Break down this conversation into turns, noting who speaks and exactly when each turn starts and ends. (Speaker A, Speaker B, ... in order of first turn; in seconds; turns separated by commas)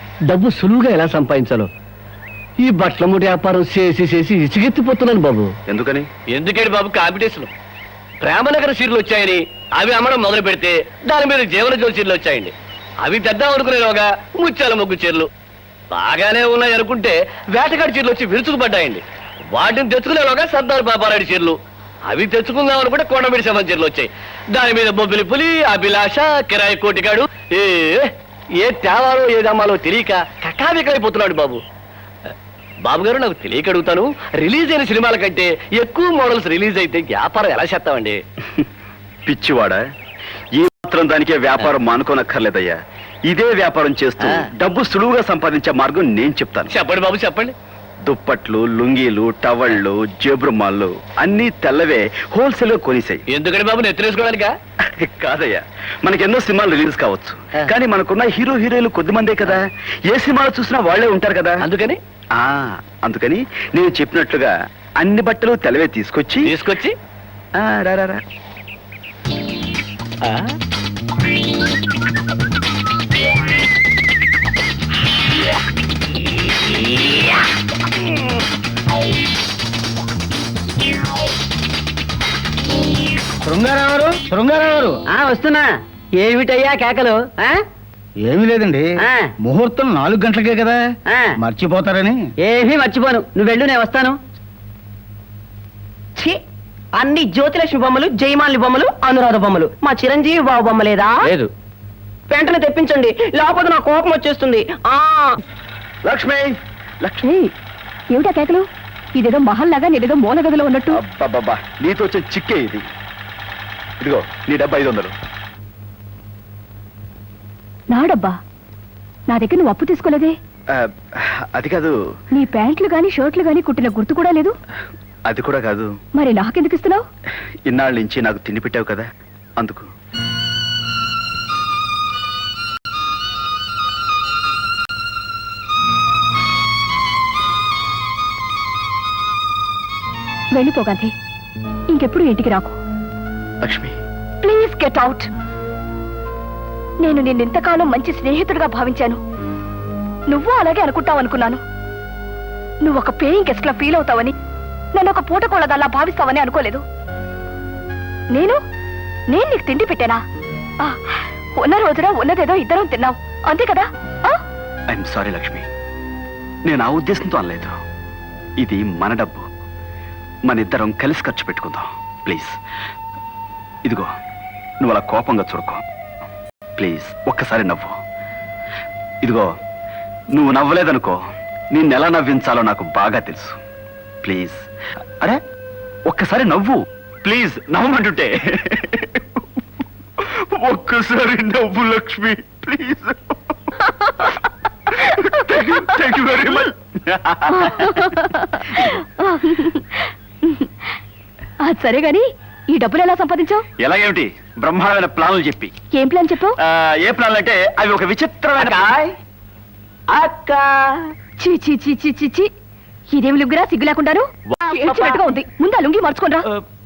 Speaker A: 0.3-1.7, Speaker A: 2.6-5.5, Speaker B: 5.7-6.1, Speaker A: 6.3-7.5, Speaker A: 8.2-15.3, Speaker A: 15.9-21.6, Speaker A: 22.1-28.1, Speaker A: 28.6-31.6, Speaker A: 32.9-38.2, Speaker B: 39.3-39.8, Speaker B: 40.6-46.7, Speaker A: 46.7-47.5, Speaker B: 48.0-53.2, Speaker A: 53.3-54.5, Speaker B: 55.0-61.6, Speaker A: 61.6-62.0, Speaker B: 62.4-66.5, Speaker A: 66.4-66.9, Speaker B: 67.6-68.2, Speaker C: 83.5-85.0, Speaker D: 85.1-87.6, Speaker C: 88.2-90.8, Speaker D: 89.0-89.3, Speaker C: 91.4-92.2, Speaker D: 92.4-94.2, Speaker D: 97.0-101.3, Speaker D: 102.3-105.3, Speaker B: 106.0-107.2, Speaker E: 107.2-107.5, Speaker E: 108.1-108.6, Speaker E: 109.2-111.0, Speaker B: 110.9-112.8, Speaker B: 114.0-115.1, Speaker E: 117.9-118.3, Speaker E: 119.3-120.3, Speaker B: 121.5-121.9, Speaker E: 122.3-124.5, Speaker B: 125.3-125.9, Speaker E: 126.2-127.0, Speaker B: 127.7-129.1, Speaker B: 129.6-129.9, Speaker E: 140.5-141.1, Speaker E: 141.9-142.8, Speaker B: 143.6-143.9, Speaker E: 144.4-145.3, Speaker E: 147.0-149.2, Speaker E: 150.3-151.6, Speaker E: 152.8-154.3, Speaker E: 154.9-156.8, Speaker E: 158.3-158.6, Speaker E: 159.3-160.2, Speaker E: 160.8-164.4, Speaker B: 164.9-165.7, Speaker B: 166.7-167.7, Speaker B: 168.6-169.4, Speaker B: 170.5-172.5, Speaker B: 174.8-175.8, Speaker B: 176.8-177.9, Speaker B: 179.2-179.5, Speaker B: 180.3-181.2, Speaker B: 181.7-183.6, Speaker B: 184.2-184.6, Speaker B: 186.1-189.4, Speaker B: 190.2-193.7, Speaker E: 194.0-194.3, Speaker B: 195.0-198.0, Speaker E: 195.5-195.9, Speaker E: 197.5-200.7, Speaker E: 201.6-203.6, Speaker B: 203.8-205.7, Speaker E: 205.9-206.6, Speaker B: 206.6-209.0, Speaker D: 210.2-210.7, Speaker E: 211.4-212.5, Speaker E: 213.1-216.5